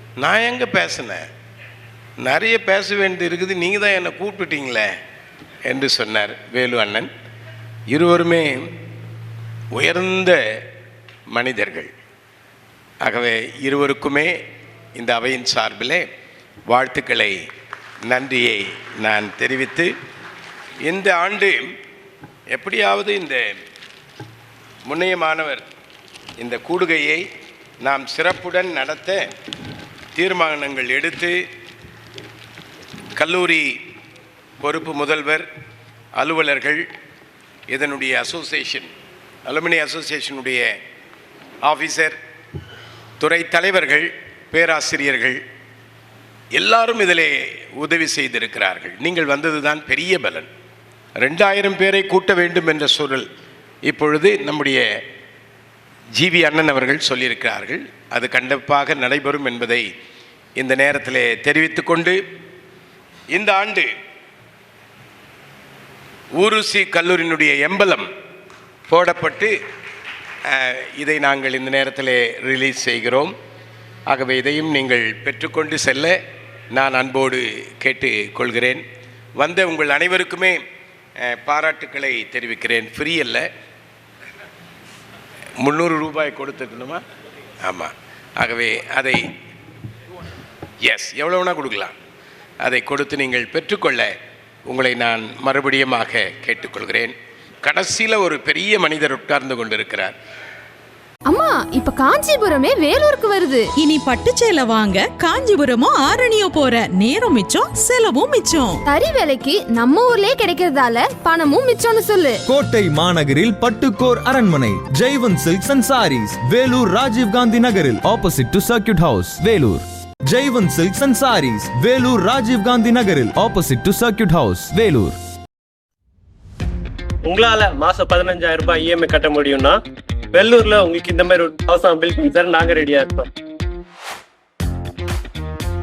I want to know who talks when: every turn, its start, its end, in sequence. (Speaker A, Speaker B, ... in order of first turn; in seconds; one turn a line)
Speaker A: 0.2-1.2
Speaker A: 2.2-4.9
Speaker A: 5.7-7.1
Speaker A: 7.9-8.7
Speaker A: 9.8-10.4
Speaker A: 11.3-11.9
Speaker A: 13.0-14.4
Speaker A: 15.0-16.0
Speaker A: 16.7-17.4
Speaker A: 18.1-19.9
Speaker A: 20.8-21.6
Speaker A: 22.5-23.5
Speaker A: 24.9-25.6
Speaker A: 26.4-27.2
Speaker A: 27.8-29.3
Speaker A: 30.1-31.4
Speaker A: 33.2-33.7
Speaker A: 34.6-35.5
Speaker A: 36.2-36.9
Speaker A: 37.7-38.9
Speaker A: 39.5-40.7
Speaker A: 41.6-42.2
Speaker A: 43.2-45.4
Speaker A: 46.5-50.5
Speaker A: 51.2-53.3
Speaker A: 53.9-54.9
Speaker A: 56.2-59.9
Speaker A: 60.6-62.2
Speaker A: 63.3-63.9
Speaker A: 66.4-68.1
Speaker A: 68.9-69.5
Speaker A: 70.5-73.3
Speaker A: 74.1-76.2
Speaker A: 76.7-78.8
Speaker A: 79.4-80.6
Speaker A: 81.2-83.5
Speaker A: 85.6-87.0
Speaker A: 87.6-89.2
Speaker A: 90.8-92.0
Speaker A: 92.6-94.1
Speaker A: 94.7-100.1
Speaker B: 101.3-103.7
Speaker C: 103.8-108.8
Speaker B: 108.9-112.4
Speaker D: 112.5-125.2
Speaker E: 127.3-129.6
Speaker E: 130.9-133.0